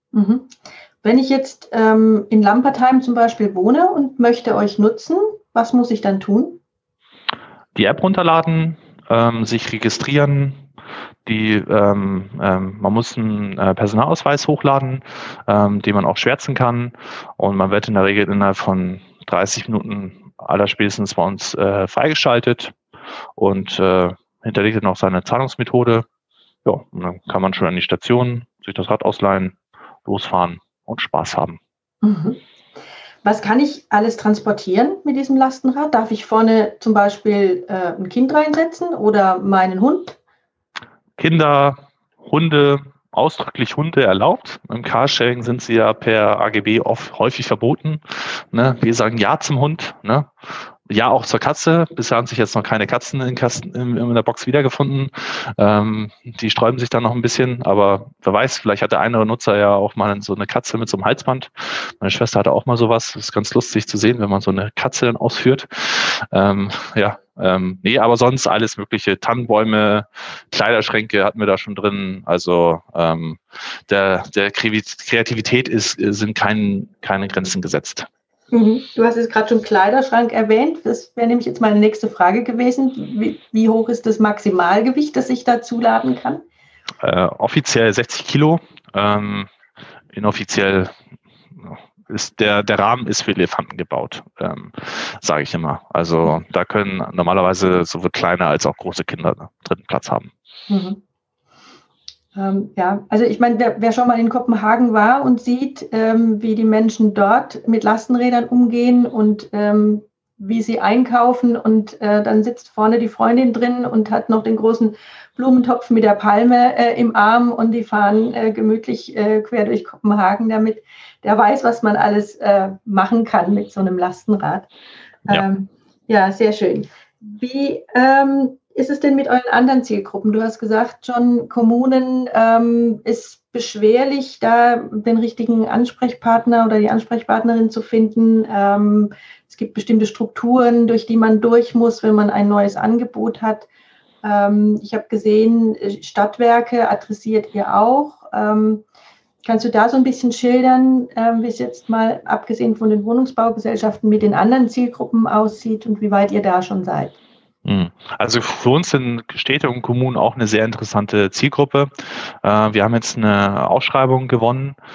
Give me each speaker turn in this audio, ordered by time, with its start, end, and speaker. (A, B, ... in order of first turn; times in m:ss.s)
0:00.1-0:06.6 A
0:07.7-0:10.6 B
0:11.2-0:22.7 B
0:23.4-0:26.0 B
0:26.6-0:31.6 B
0:32.0-0:32.4 A
0:33.2-0:40.2 A
0:41.2-0:50.3 B
0:50.9-1:18.1 B
1:18.5-1:26.4 A
1:27.0-1:29.5 B
1:30.1-1:30.9 B
1:31.6-1:40.3 B
1:40.7-1:41.0 A
1:42.3-2:04.7 A
2:05.3-2:23.7 A
2:24.2-2:28.8 A
2:29.4-2:37.2 A
2:37.6-2:41.9 B
2:42.4-2:44.8 B